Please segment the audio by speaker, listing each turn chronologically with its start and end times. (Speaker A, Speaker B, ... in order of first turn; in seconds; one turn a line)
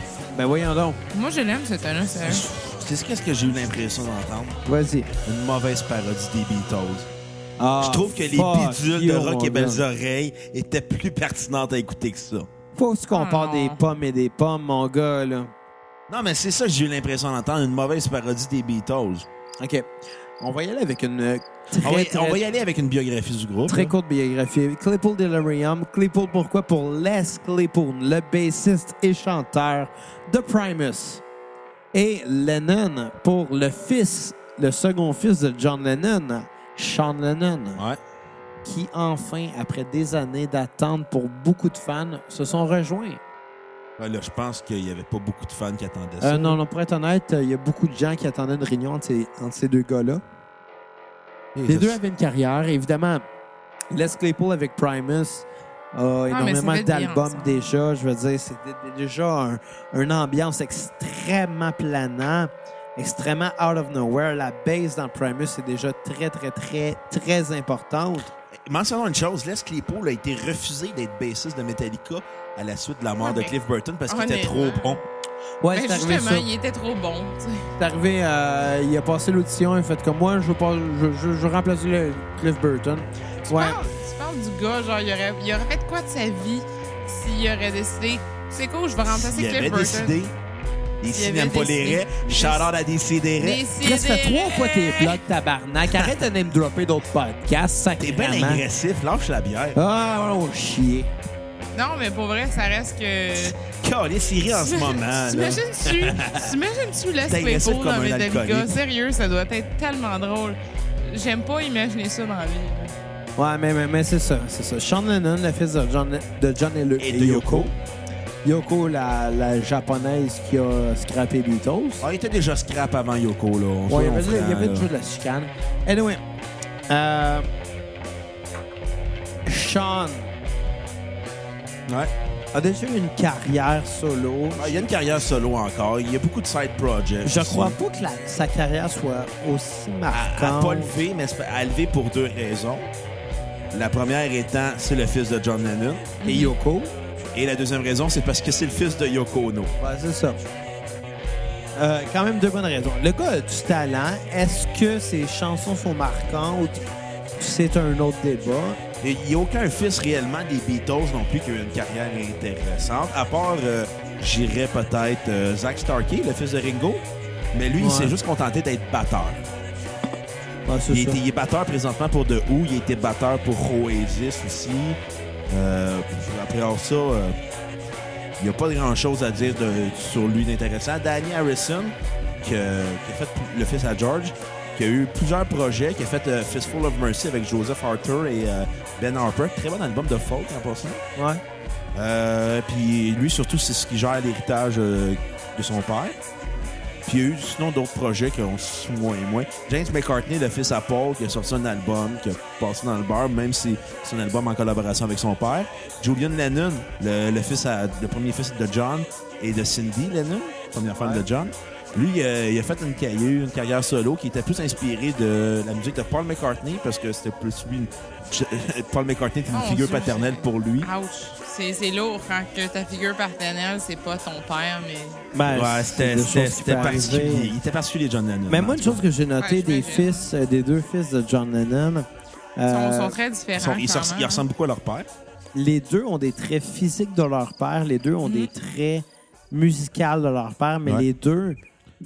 Speaker A: 0.3-1.0
Speaker B: 1.1-2.4
Speaker C: 2.2-4.6
Speaker A: 4.7-5.1
Speaker C: 5.2-7.1
Speaker A: 7.6-9.8
Speaker C: 7.8-12.5
Speaker A: 12.7-15.5
Speaker B: 13.1-13.8
Speaker C: 16.1-19.3
Speaker A: 19.6-19.9
Speaker A: 20.4-22.4
Speaker C: 21.8-23.9
Speaker A: 23.7-31.2
Speaker A: 31.9-37.8
Speaker A: 38.6-43.2
Speaker C: 44.0-46.6
Speaker A: 46.2-50.2
Speaker C: 51.5-52.0
Speaker A: 51.6-53.2
Speaker A: 53.9-68.3
Speaker B: 56.3-57.5
Speaker C: 68.7-75.0
Speaker B: 73.2-73.5
Speaker B: 74.1-75.0
Speaker A: 75.6-76.5
Speaker B: 75.7-77.7
Speaker A: 77.8-83.8
Speaker B: 83.5-90.2
Speaker C: 89.1-90.3
Speaker C: 91.0-93.6
Speaker B: 91.1-92.7
Speaker B: 93.4-95.2
Speaker A: 93.8-98.6
Speaker C: 98.0-99.8
Speaker A: 99.7-101.1
Speaker B: 101.7-103.5
Speaker C: 103.4-106.5
Speaker B: 104.5-112.9
Speaker C: 107.3-108.8
Speaker A: 113.4-117.7
Speaker C: 117.0-117.7
Speaker A: 118.4-122.0
Speaker C: 122.0-124.9
Speaker A: 123.9-126.2
Speaker A: 126.9-127.5
Speaker A: 129.4-130.3
Speaker A: 132.5-134.9
Speaker C: 134.6-137.8
Speaker A: 137.2-141.0
Speaker C: 140.1-142.9
Speaker C: 143.7-146.1
Speaker B: 146.2-146.5
Speaker A: 146.2-146.9
Speaker C: 147.3-149.7
Speaker A: 149.8-150.4
Speaker A: 151.8-156.8
Speaker A: 157.4-158.8
Speaker C: 159.0-169.4
Speaker A: 167.8-168.1
Speaker A: 170.7-171.2
Speaker C: 170.9-177.4
Speaker C: 178.4-191.0
Speaker A: 191.2-191.4
Speaker C: 191.9-196.2
Speaker C: 197.0-220.9
Speaker A: 211.0-211.2
Speaker B: 219.5-225.2
Speaker A: 225.3-227.5
Speaker C: 225.4-229.0
Speaker A: 228.5-233.2
Speaker B: 229.4-230.3
Speaker B: 232.7-234.4
Speaker C: 233.6-235.1
Speaker A: 235.5-241.6
Speaker B: 238.2-238.5